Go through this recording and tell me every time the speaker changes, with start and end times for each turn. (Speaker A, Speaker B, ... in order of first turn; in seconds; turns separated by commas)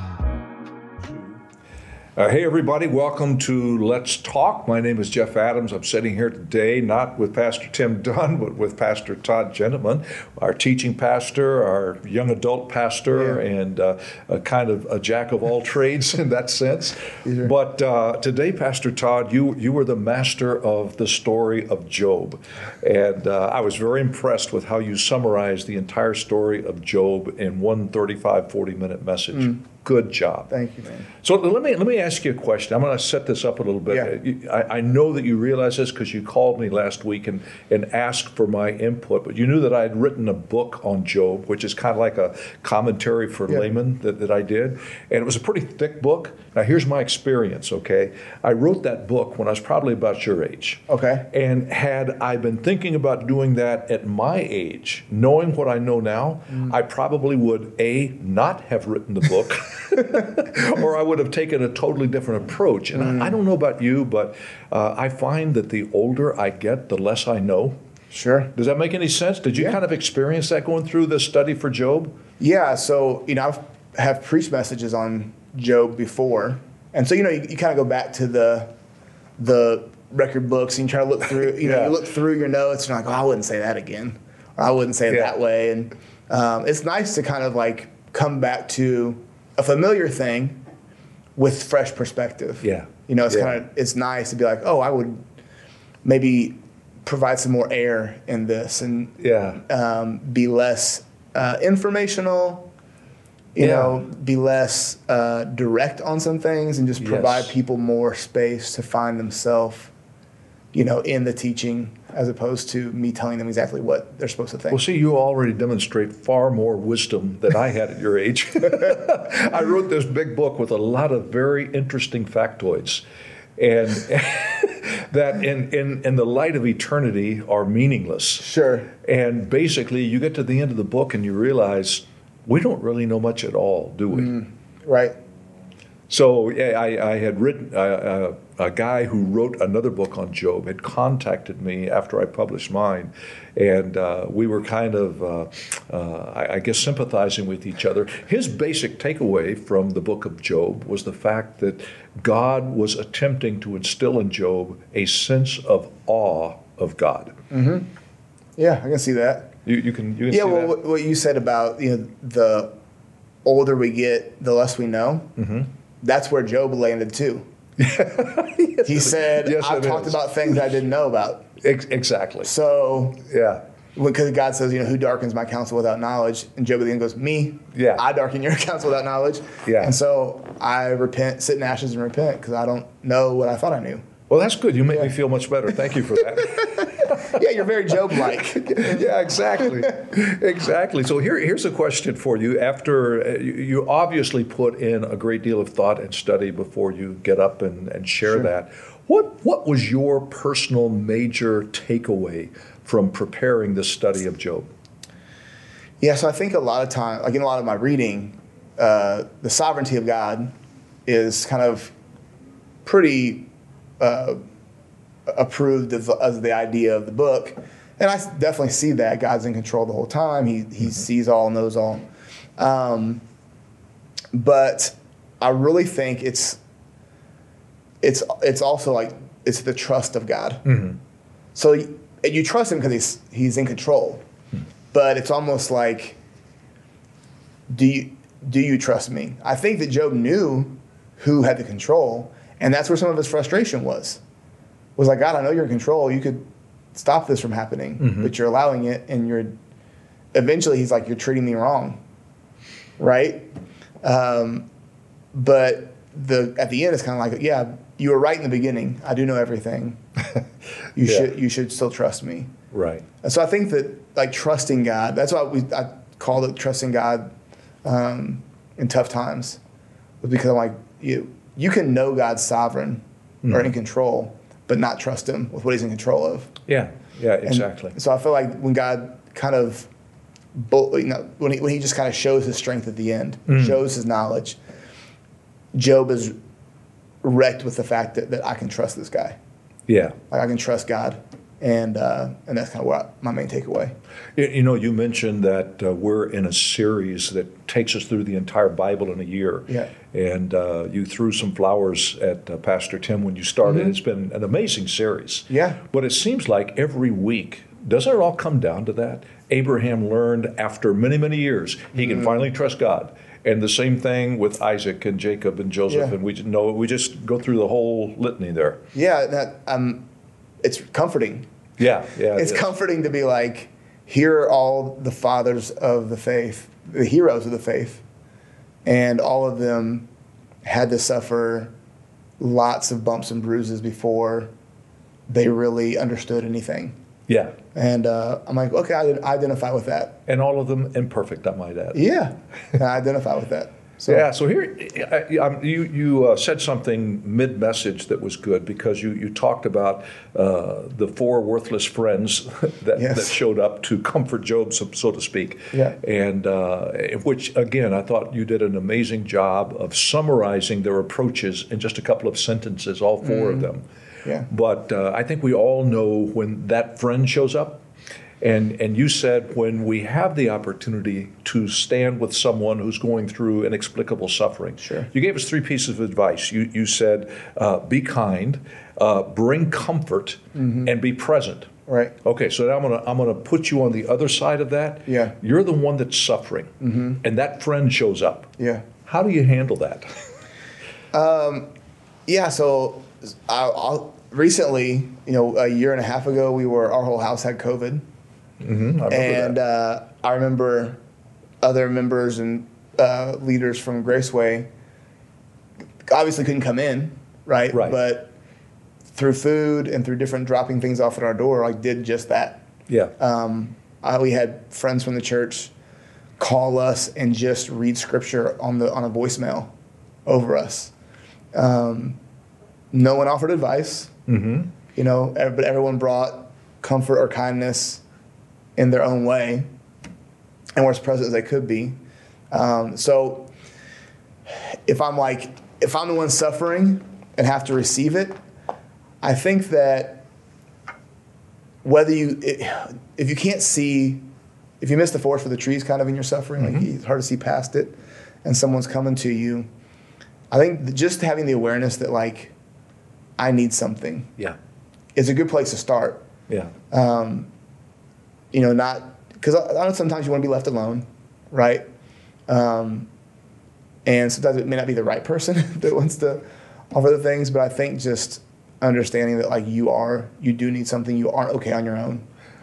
Speaker A: 2.1-30.5, Speaker B: 17.2-17.5, Speaker B: 30.5-31.1, Speaker A: 31.2-67.8, Speaker B: 50.9-51.3, Speaker B: 62.9-63.4, Speaker B: 68.1-68.5, Speaker A: 68.5-72.1, Speaker B: 72.4-78.7, Speaker B: 79.4-90.6, Speaker A: 81.4-82.0, Speaker A: 85.1-85.3, Speaker B: 91.3-95.2, Speaker A: 92.6-93.6, Speaker B: 96.0-102.7, Speaker A: 99.2-99.6, Speaker B: 103.5-109.9, Speaker A: 103.6-104.0, Speaker A: 107.0-107.5, Speaker B: 110.7-114.8, Speaker A: 114.7-123.0, Speaker A: 123.6-128.4, Speaker B: 128.4-128.9, Speaker A: 129.0-134.3, Speaker B: 134.1-135.1, Speaker A: 136.1-157.3, Speaker B: 157.5-157.9, Speaker B: 158.6-159.5, Speaker A: 159.6-160.8, Speaker B: 160.3-162.7, Speaker B: 163.4-165.3, Speaker A: 165.4-165.7, Speaker B: 166.0-167.4, Speaker A: 167.8-170.6, Speaker B: 168.8-171.4, Speaker A: 171.6-172.5, Speaker B: 172.4-173.2, Speaker A: 173.3-173.6, Speaker B: 173.9-184.1, Speaker A: 177.7-178.0, Speaker A: 179.6-179.9, Speaker A: 184.3-187.2, Speaker B: 187.0-189.7, Speaker A: 188.4-204.7, Speaker B: 206.0-210.5, Speaker B: 211.1-211.9, Speaker B: 212.8-213.5, Speaker B: 214.0-214.4, Speaker B: 215.3-222.1, Speaker B: 222.6-223.2, Speaker B: 224.3-226.6, Speaker B: 228.0-230.6, Speaker A: 230.6-231.0, Speaker B: 231.5-234.2, Speaker B: 234.9-236.2, Speaker B: 237.7-244.2, Speaker B: 245.0-249.6, Speaker A: 248.0-248.3, Speaker B: 250.3-252.0, Speaker B: 253.0-253.5, Speaker B: 254.0-254.7, Speaker B: 255.3-260.0, Speaker B: 260.9-262.5, Speaker A: 262.7-263.0, Speaker B: 263.2-267.3, Speaker B: 267.8-269.6, Speaker B: 270.2-276.5, Speaker A: 273.4-273.7, Speaker A: 276.7-277.9, Speaker B: 277.4-279.9, Speaker B: 280.5-284.6, Speaker A: 283.5-283.8, Speaker B: 285.7-286.4, Speaker B: 287.2-289.4, Speaker A: 289.9-290.1, Speaker B: 290.3-293.9, Speaker A: 294.4-318.8, Speaker B: 299.7-299.9, Speaker B: 303.6-303.9, Speaker B: 305.5-305.8, Speaker B: 312.0-312.4, Speaker B: 315.9-316.1, Speaker B: 318.9-320.0, Speaker B: 320.6-321.4, Speaker A: 321.8-322.7, Speaker B: 322.3-328.0, Speaker B: 328.8-330.1, Speaker B: 330.6-331.7, Speaker B: 332.4-334.5, Speaker B: 335.3-336.9, Speaker A: 337.3-337.6, Speaker B: 337.7-340.2, Speaker A: 340.3-342.0, Speaker B: 341.9-344.3, Speaker A: 344.1-363.8, Speaker B: 352.9-353.4, Speaker B: 363.2-363.7, Speaker A: 364.5-367.8, Speaker A: 368.4-381.7, Speaker B: 374.8-375.1, Speaker B: 380.5-380.9, Speaker B: 381.9-382.1, Speaker A: 382.2-388.5, Speaker B: 385.1-385.3, Speaker B: 386.8-387.2, Speaker B: 388.6-388.8, Speaker A: 389.0-390.1, Speaker B: 391.1-391.7, Speaker B: 392.3-398.0, Speaker A: 398.6-399.6, Speaker B: 399.1-401.0, Speaker B: 401.6-404.7, Speaker B: 406.0-408.3, Speaker A: 407.7-408.0, Speaker B: 409.1-412.6, Speaker B: 413.2-415.7, Speaker B: 416.4-419.7, Speaker B: 420.2-420.9, Speaker B: 421.5-422.2, Speaker B: 422.9-424.1, Speaker A: 424.3-424.7, Speaker B: 424.9-428.0, Speaker B: 428.8-429.7, Speaker B: 430.8-432.0, Speaker B: 432.5-433.5, Speaker B: 434.8-438.4, Speaker B: 439.2-440.2, Speaker B: 441.8-444.3, Speaker B: 444.8-449.7, Speaker A: 446.6-446.9, Speaker B: 450.5-452.5, Speaker B: 453.4-454.3, Speaker B: 455.1-456.2, Speaker B: 456.9-457.5, Speaker B: 458.5-461.9, Speaker B: 462.5-463.1, Speaker B: 464.1-472.2